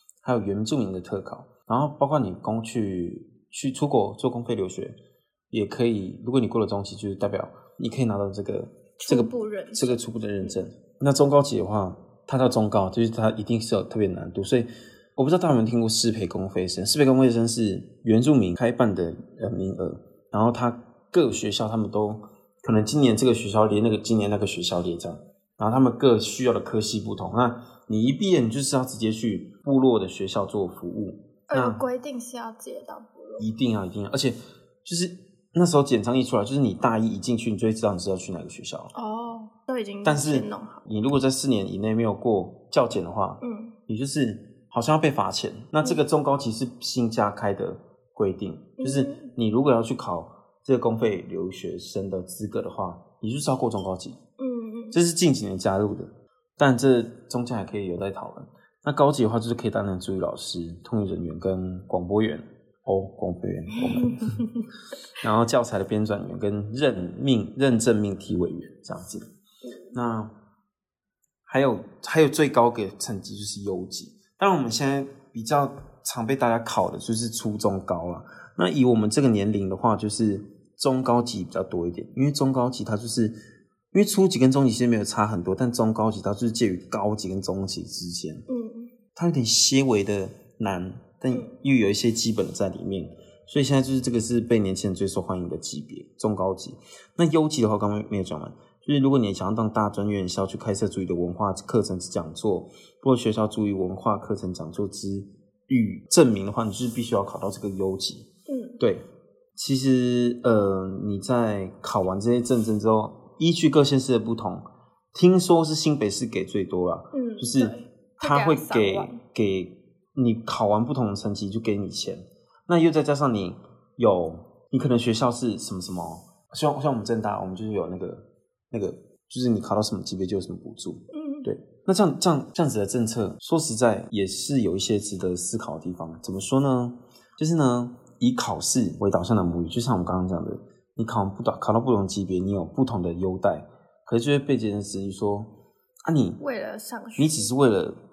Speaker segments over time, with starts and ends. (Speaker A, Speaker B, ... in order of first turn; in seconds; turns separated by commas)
Speaker A: 0.2-5.0, Speaker A: 5.5-31.8, Speaker B: 9.0-10.6, Speaker B: 31.5-33.5, Speaker A: 33.4-38.9, Speaker B: 38.9-40.8, Speaker A: 40.0-54.2, Speaker B: 43.4-43.7, Speaker B: 48.8-49.3, Speaker B: 54.4-55.0, Speaker A: 54.9-64.4, Speaker B: 63.9-64.7, Speaker A: 65.2-69.3, Speaker B: 69.6-70.0, Speaker A: 69.9-70.3, Speaker A: 71.5-83.4, Speaker A: 83.9-88.5, Speaker B: 88.5-88.9, Speaker A: 89.2-108.3, Speaker B: 108.5-108.8, Speaker A: 109.6-145.5, Speaker B: 117.1-119.2, Speaker B: 131.1-131.5, Speaker A: 146.1-146.4, Speaker B: 146.4-147.5, Speaker A: 147.2-148.0